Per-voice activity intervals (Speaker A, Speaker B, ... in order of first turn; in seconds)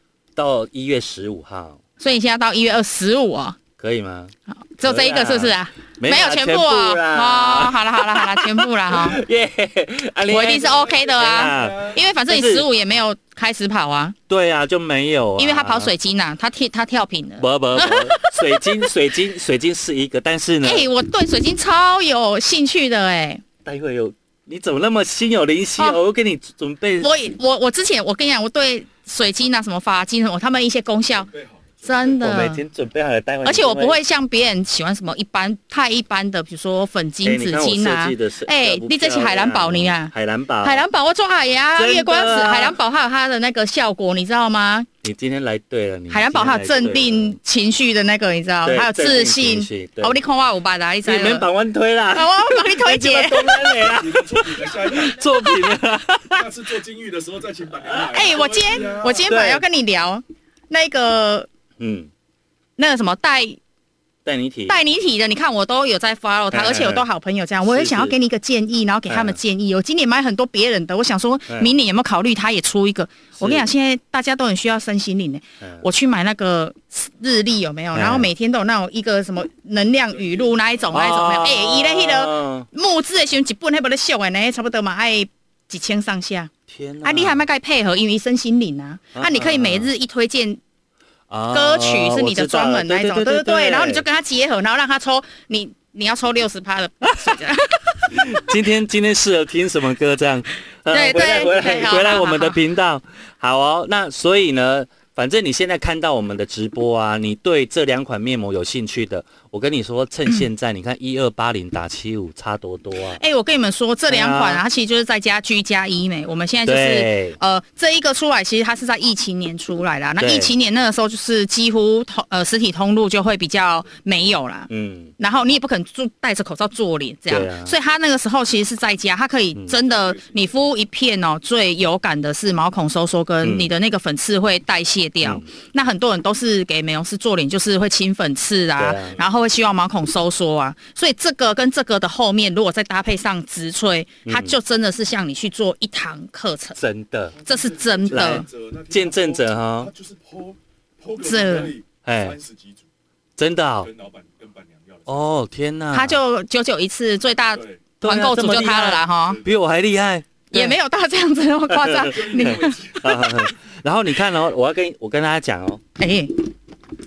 Speaker A: 0.3-1.8, 3.8-12.7, 14.3-15.9, 17.4-20.9, 23.6-27.1, 32.2-34.0, 37.2-40.8, 41.8-42.8, 45.0-47.4, 48.6-50.2, 51.0-56.5, 59.3-59.6, 61.8-62.1, 64.2-64.8, 66.5-67.0, 67.6-68.1, 69.1-69.4, 73.3-73.7, 77.9-78.3, 80.9-82.7, 86.7-87.4, 89.1-89.9, 91.3-94.0, 98.1-113.2, 114.1-114.6, 116.6-117.4, 120.2-120.5, 124.7-125.1, 127.3-127.7, 133.4-133.7, 138.8-139.1, 144.2-144.6, 146.8-147.3, 148.1-149.9, 152.0-152.4, 153.4-153.9, 155.1-156.2, 158.0-160.8, 161.7-165.8
Speaker B: 2.0-3.6, 4.5-9.2, 10.3-14.2, 15.4-18.9, 20.6-23.4, 27.0-31.3, 31.8-32.6, 33.4-44.9, 46.1-51.5, 52.1-53.8, 58.1-61.5, 62.8-63.6, 64.7-86.5, 87.0-90.6, 91.5-98.2, 100.9-102.6, 113.1-146.8, 147.4-148.4, 151.2-151.7, 155.9-159.4, 160.5-162.8, 166.0-166.3
Speaker C: 10.6-12.0, 31.3-32.2, 53.9-55.2, 56.4-59.2, 80.1-80.9, 129.7-130.6, 147.3-152.8, 153.8-155.2, 157.5-157.8, 159.3-159.5, 162.0-163.4